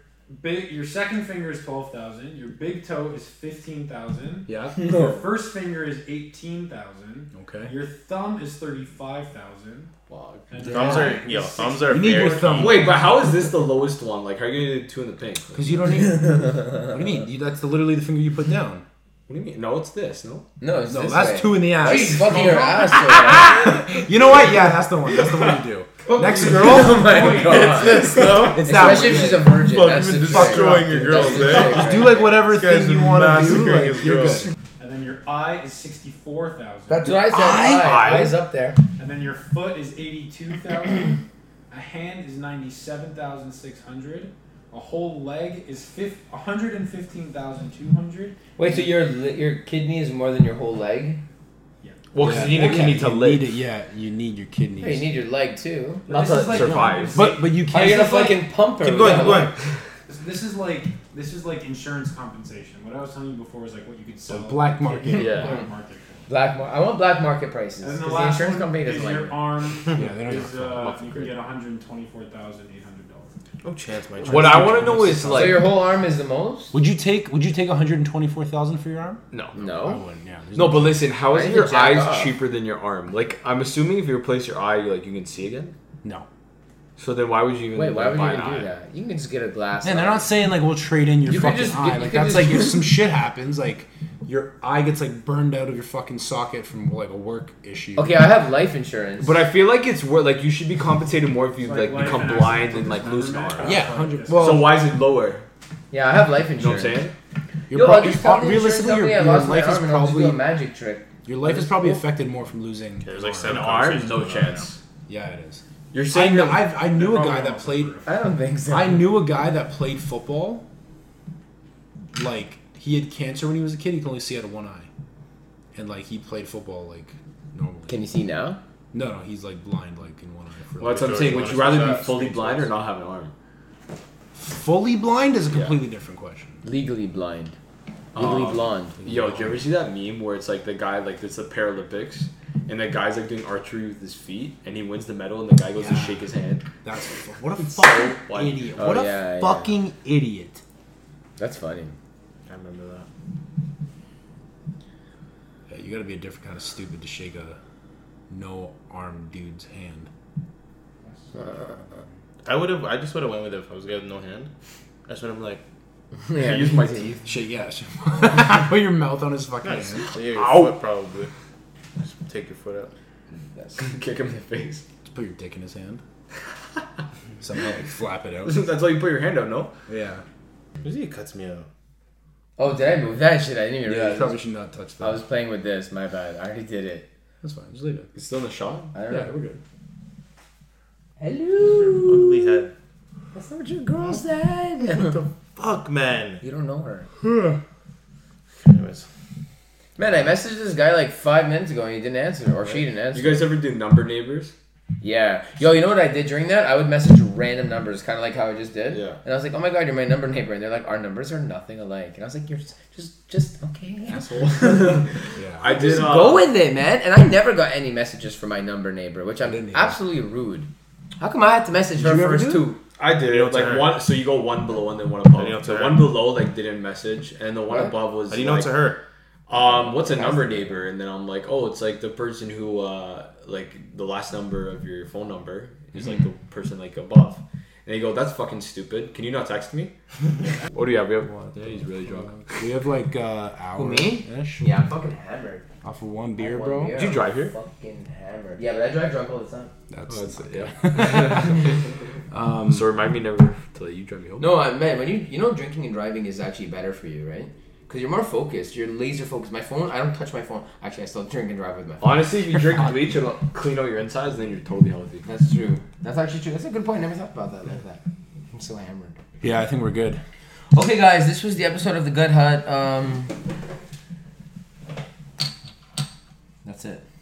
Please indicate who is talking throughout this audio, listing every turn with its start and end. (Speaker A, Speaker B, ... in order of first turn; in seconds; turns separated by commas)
Speaker A: 0.3-9.9, Speaker B: 4.5-4.9, Speaker C: 4.8-5.2, Speaker B: 7.3-7.7, Speaker D: 10.1-11.0, Speaker A: 10.5-13.2, Speaker E: 10.7-12.8, Speaker B: 11.9-13.1, Speaker D: 12.6-16.2, Speaker B: 15.5-18.8, Speaker C: 16.2-16.9, Speaker D: 19.3-20.5, Speaker C: 20.6-23.8, Speaker B: 20.9-34.5, Speaker A: 21.8-22.7, Speaker D: 25.1-25.6, Speaker A: 26.1-27.7, Speaker C: 26.3-32.3, Speaker E: 27.4-34.5, Speaker A: 34.8-37.4, Speaker C: 36.9-38.8, Speaker B: 37.3-38.2, Speaker D: 37.6-38.3, Speaker A: 39.0-48.9, Speaker C: 48.5-51.2, Speaker A: 51.8-53.0, Speaker D: 52.1-53.5, Speaker B: 52.2-55.1, Speaker C: 54.8-56.1, Speaker A: 56.1-57.6, Speaker D: 56.1-57.2, Speaker B: 56.5-58.5, Speaker C: 57.7-59.5, Speaker E: 58.8-59.5, Speaker A: 60.0-66.2, Speaker B: 64.3-65.5, Speaker D: 65.1-65.6, Speaker C: 66.3-69.4, Speaker A: 67.8-73.3, Speaker B: 69.9-70.8, Speaker D: 70.0-71.4, Speaker E: 73.6-75.0, Speaker B: 74.2-75.7, Speaker D: 74.3-75.7, Speaker C: 75.3-76.7, Speaker B: 76.7-79.2, Speaker D: 79.3-79.8, Speaker C: 79.5-80.0, Speaker B: 79.8-81.1, Speaker D: 80.5-85.7, Speaker C: 81.3-82.3, Speaker D: 87.0-88.7, Speaker C: 87.7-90.3, Speaker B: 89.8-98.1, Speaker C: 91.2-92.9, Speaker C: 98.0-99.4, Speaker D: 99.2-105.4, Speaker A: 101.6-104.8, Speaker C: 101.7-102.0, Speaker B: 103.6-104.8, Speaker C: 105.9-107.0, Speaker D: 106.6-107.1, Speaker B: 107.7-110.4, Speaker C: 107.7-112.0, Speaker B: 111.2-113.6, Speaker E: 113.0-114.7, Speaker D: 113.4-114.8, Speaker B: 115.1-118.0, Speaker D: 115.9-116.8, Speaker A: 116.8-118.1, Speaker C: 118.0-119.2, Speaker B: 118.7-120.6, Speaker B: 122.1-124.9, Speaker B: 125.7-128.0, Speaker C: 127.9-128.6, Speaker B: 128.9-131.1, Speaker D: 130.8-133.3, Speaker E: 130.8-132.7, Speaker B: 134.4-136.6, Speaker D: 135.5-135.8, Speaker C: 136.6-137.5, Speaker C: 138.1-139.0, Speaker D: 138.1-146.6, Speaker B: 139.0-139.6, Speaker B: 145.8-146.2, Speaker B: 146.8-150.6, Speaker D: 147.6-148.7, Speaker C: 148.7-149.8, Speaker C: 151.4-151.9, Speaker E: 152.5-153.1, Speaker B: 155.7-157.6, Speaker B: 158.3-160.1, Speaker A: 161.0-161.3, Speaker C: 161.3-161.7, Speaker E: 162.4-164.5, Speaker E: 165.1-165.6, Speaker C: 166.3-167.2, Speaker D: 166.3-167.2, Speaker B: 167.2-170.1, Speaker E: 169.6-171.3, Speaker D: 170.4-170.7, Speaker E: 172.0-172.9, Speaker C: 173.5-173.8, Speaker D: 173.8-174.8, Speaker B: 175.1-176.0, Speaker B: 177.4-178.7, Speaker D: 178.4-179.7, Speaker B: 179.9-180.2, Speaker E: 180.8-181.7, Speaker C: 182.6-184.4, Speaker B: 183.8-185.2, Speaker C: 185.0-187.1, Speaker B: 187.4-188.1, Speaker D: 188.1-188.9, Speaker C: 188.9-189.3, Speaker B: 189.1-189.6, Speaker C: 191.2-192.6, Speaker E: 191.9-192.7, Speaker C: 193.3-195.2, Speaker E: 194.9-196.4, Speaker C: 196.4-197.1, Speaker B: 197.2-197.6, Speaker E: 198.6-199.1, Speaker C: 200.0-203.5, Speaker D: 203.1-204.5, Speaker C: 205.0-215.1, Speaker D: 208.9-209.2, Speaker D: 214.1-216.5, Speaker B: 215.3-215.7, Speaker C: 215.6-220.7, Speaker B: 219.4-220.0, Speaker C: 221.2-222.8, Speaker B: 221.9-222.7, Speaker D: 223.0-228.7, Speaker E: 223.2-224.0, Speaker E: 225.3-226.2, Speaker C: 227.7-228.0, Speaker E: 228.3-229.0, Speaker D: 229.5-239.9, Speaker C: 229.7-230.8, Speaker B: 235.9-236.3, Speaker D: 240.7-242.6, Speaker B: 242.6-244.8, Speaker C: 243.7-245.6, Speaker B: 245.8-247.0, Speaker C: 246.4-249.7, Speaker D: 246.9-247.5, Speaker B: 249.9-251.7, Speaker D: 250.1-251.8, Speaker B: 252.3-252.9, Speaker D: 252.7-254.5, Speaker C: 254.4-262.2, Speaker D: 262.0-265.2, Speaker C: 265.2-269.2, Speaker B: 269.4-270.2, Speaker C: 270.7-273.4, Speaker C: 276.6-277.0